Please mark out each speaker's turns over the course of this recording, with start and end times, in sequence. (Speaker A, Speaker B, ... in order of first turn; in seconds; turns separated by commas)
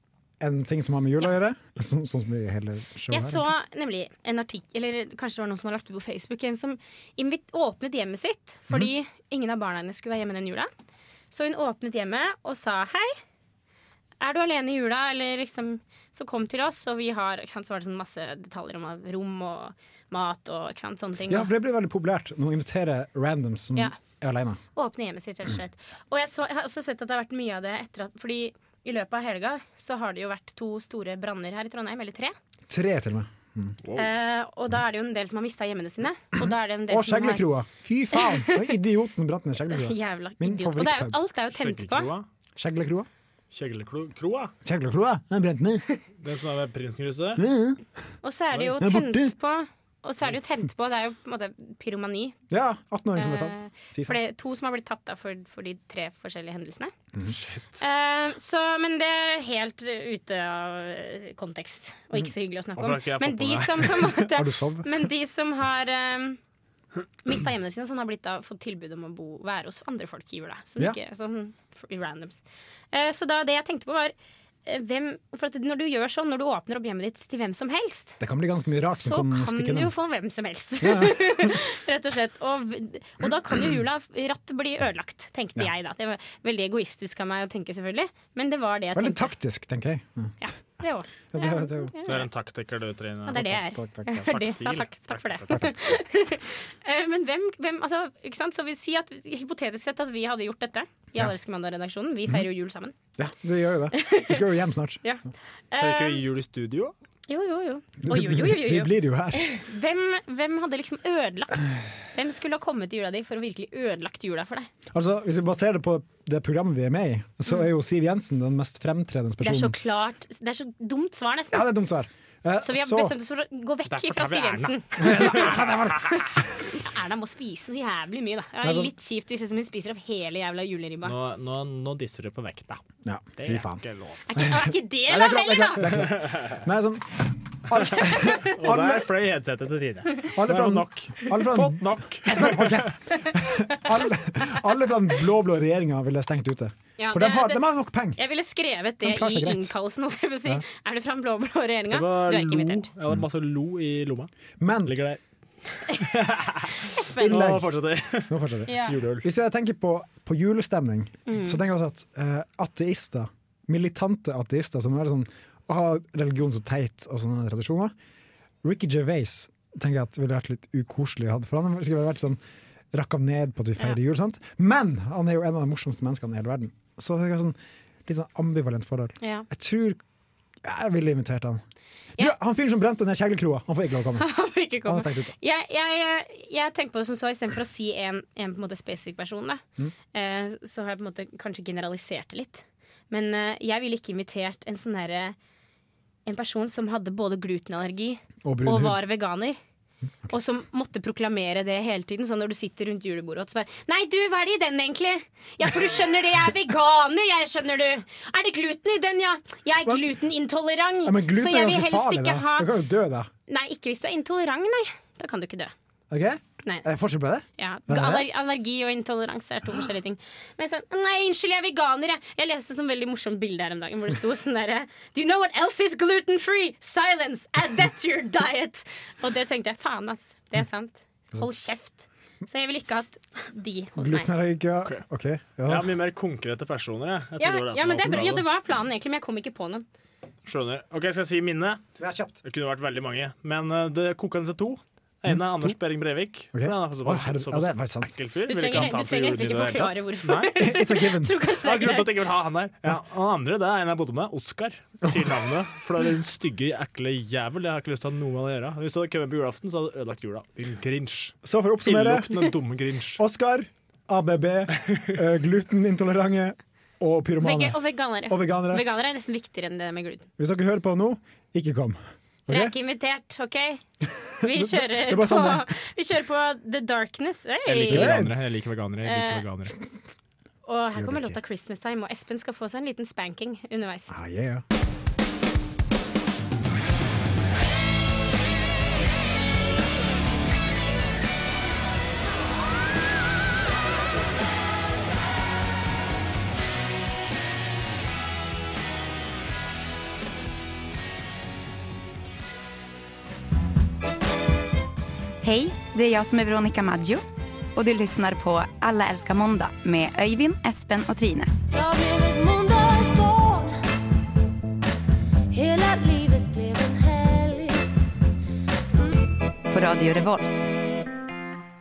Speaker A: 0.4-3.5, Speaker B: 3.1-10.7, Speaker B: 11.3-13.2, Speaker B: 14.2-21.5, Speaker A: 21.3-24.6, Speaker B: 24.8-32.4, Speaker A: 32.7-33.8, Speaker C: 33.8-34.1, Speaker B: 34.0-37.5, Speaker A: 36.9-41.2, Speaker B: 38.1-38.8, Speaker B: 39.7-42.1, Speaker C: 41.5-42.3, Speaker A: 42.6-43.1, Speaker C: 43.5-44.5, Speaker A: 44.6-45.9, Speaker C: 46.2-47.4, Speaker A: 47.4-47.8, Speaker B: 48.2-52.4, Speaker A: 48.8-49.3, Speaker A: 52.5-54.2, Speaker B: 53.2-56.9, Speaker C: 57.4-57.7, Speaker B: 57.8-66.4, Speaker C: 62.8-64.0, Speaker A: 64.1-65.0, Speaker B: 67.2-72.4, Speaker B: 72.9-74.1, Speaker B: 74.7-78.2, Speaker A: 78.2-79.9, Speaker B: 78.9-89.3, Speaker A: 80.8-81.6, Speaker A: 89.0-90.4, Speaker B: 90.4-92.3, Speaker A: 91.3-91.9, Speaker C: 92.1-93.5, Speaker B: 93.3-103.0, Speaker A: 93.3-94.3, Speaker C: 94.2-95.7, Speaker A: 103.2-105.0, Speaker B: 103.9-104.4, Speaker B: 105.0-106.2, Speaker C: 105.8-106.9, Speaker B: 107.3-114.7, Speaker A: 108.0-109.5, Speaker A: 114.9-119.8, Speaker B: 119.4-121.7, Speaker A: 121.5-123.2, Speaker B: 122.6-125.6, Speaker C: 123.9-125.7, Speaker A: 125.0-126.3, Speaker B: 126.5-131.1, Speaker A: 128.6-128.9, Speaker C: 131.0-132.8, Speaker A: 133.1-133.8, Speaker C: 133.4-134.2, Speaker B: 134.3-135.9, Speaker A: 134.4-139.1, Speaker C: 136.1-136.5, Speaker C: 138.4-142.9, Speaker A: 140.3-148.2, Speaker B: 147.0-147.6, Speaker B: 148.2-152.9, Speaker A: 149.0-149.7, Speaker C: 151.9-154.3, Speaker A: 154.6-155.0, Speaker C: 154.9-155.2, Speaker C: 155.7-159.3, Speaker B: 156.9-157.4, Speaker A: 157.2-157.7, Speaker A: 158.3-167.9, Speaker B: 158.7-159.0, Speaker B: 161.3-161.6, Speaker A: 168.6-172.4, Speaker A: 172.9-180.0, Speaker B: 179.2-179.5, Speaker A: 180.6-181.6, Speaker A: 182.2-184.3, Speaker B: 184.2-195.4, Speaker A: 184.9-185.3, Speaker B: 196.3-199.6, Speaker A: 198.4-199.0, Speaker B: 200.3-212.7, Speaker A: 211.0-213.3, Speaker B: 213.5-215.7, Speaker A: 216.1-218.3, Speaker B: 217.6-234.3, Speaker A: 234.0-235.9, Speaker C: 235.7-238.4, Speaker B: 237.4-239.9, Speaker C: 240.5-241.8, Speaker A: 242.0-242.4, Speaker C: 242.4-250.5, Speaker A: 245.3-245.7, Speaker A: 246.5-248.1, Speaker B: 248.5-252.1, Speaker A: 250.6-251.4, Speaker C: 251.6-263.2, Speaker A: 261.4-262.5, Speaker A: 263.2-268.9, Speaker B: 267.4-270.3, Speaker A: 270.4-272.8, Speaker B: 272.5-273.8, Speaker A: 274.2-275.7, Speaker B: 274.4-278.2, Speaker C: 277.7-279.7, Speaker A: 277.9-278.3, Speaker B: 279.0-279.4, Speaker B: 280.7-284.1, Speaker A: 280.9-281.4, Speaker A: 284.1-284.6, Speaker D: 305.4-307.2, Speaker D: 307.8-311.5, Speaker E: 311.7-313.8, Speaker E: 315.5-317.8, Speaker D: 319.7-320.7